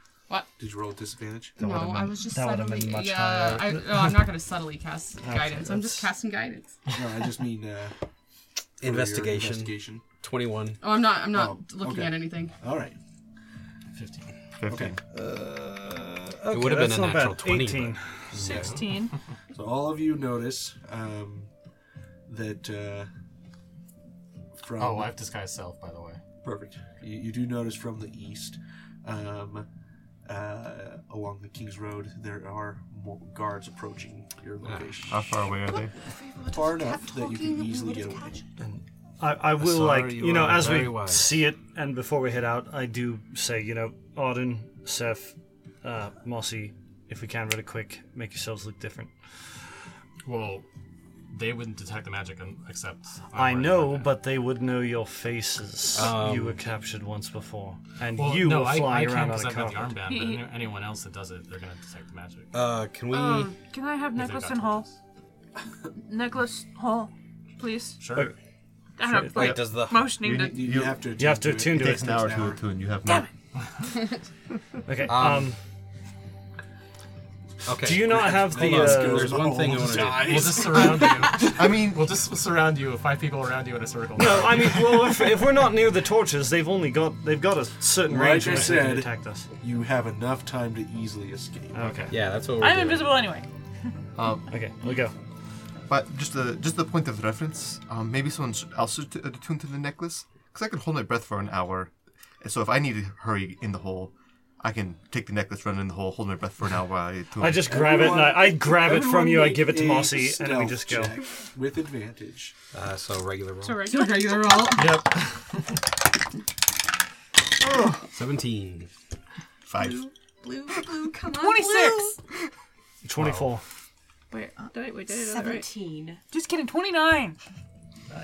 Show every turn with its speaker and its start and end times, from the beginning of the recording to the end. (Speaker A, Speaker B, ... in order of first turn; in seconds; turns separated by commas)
Speaker A: 0.6-1.6, Speaker B: 1.6-6.8, Speaker C: 1.6-4.2, Speaker C: 5.2-6.1, Speaker A: 6.9-8.0, Speaker A: 8.8-10.1, Speaker D: 8.8-10.8, Speaker B: 10.8-12.6, Speaker A: 11.3-13.0, Speaker E: 13.9-14.3, Speaker F: 14.6-15.0, Speaker A: 14.7-16.3, Speaker C: 16.4-18.5, Speaker D: 16.5-18.9, Speaker G: 18.4-19.2, Speaker A: 19.5-21.5, Speaker A: 22.3-23.1, Speaker A: 24.6-25.1, Speaker E: 24.8-26.2, Speaker A: 26.4-29.7, Speaker A: 30.3-35.3, Speaker D: 34.6-35.1, Speaker F: 35.1-35.9, Speaker B: 35.6-38.5, Speaker A: 36.5-38.3, Speaker C: 38.6-49.6, Speaker D: 39.6-41.4, Speaker E: 50.3-50.7, Speaker E: 51.3-54.1, Speaker C: 53.4-60.0, Speaker D: 55.9-56.6, Speaker E: 58.2-62.5, Speaker G: 60.0-60.5, Speaker D: 62.5-63.5, Speaker G: 63.1-64.9, Speaker E: 64.2-65.0, Speaker G: 66.0-68.0, Speaker E: 68.0-68.3, Speaker G: 69.0-70.6, Speaker D: 69.3-70.1, Speaker F: 69.4-71.1, Speaker A: 70.4-72.6, Speaker C: 71.2-72.3, Speaker F: 71.7-73.3, Speaker C: 74.9-75.6, Speaker D: 75.1-75.5, Speaker D: 77.7-80.8, Speaker C: 77.8-79.4, Speaker A: 77.9-81.3, Speaker E: 80.0-85.2, Speaker F: 81.4-82.2, Speaker C: 84.2-89.5, Speaker A: 88.1-92.1, Speaker E: 88.5-88.8, Speaker C: 91.7-92.2, Speaker E: 91.8-92.1, Speaker D: 92.1-93.2, Speaker G: 92.5-93.9, Speaker F: 94.2-94.5, Speaker C: 94.5-95.2, Speaker F: 95.9-107.8, Speaker C: 107.4-111.1, Speaker A: 107.7-112.6, Speaker D: 112.7-113.9, Speaker B: 113.6-115.0, Speaker E: 114.6-115.8, Speaker D: 118.1-118.9, Speaker B: 119.7-122.2, Speaker F: 119.7-120.0, Speaker G: 121.3-122.2, Speaker C: 123.0-123.7, Speaker E: 123.2-123.5, Speaker B: 124.3-126.2, Speaker G: 124.5-125.7, Speaker G: 126.3-127.4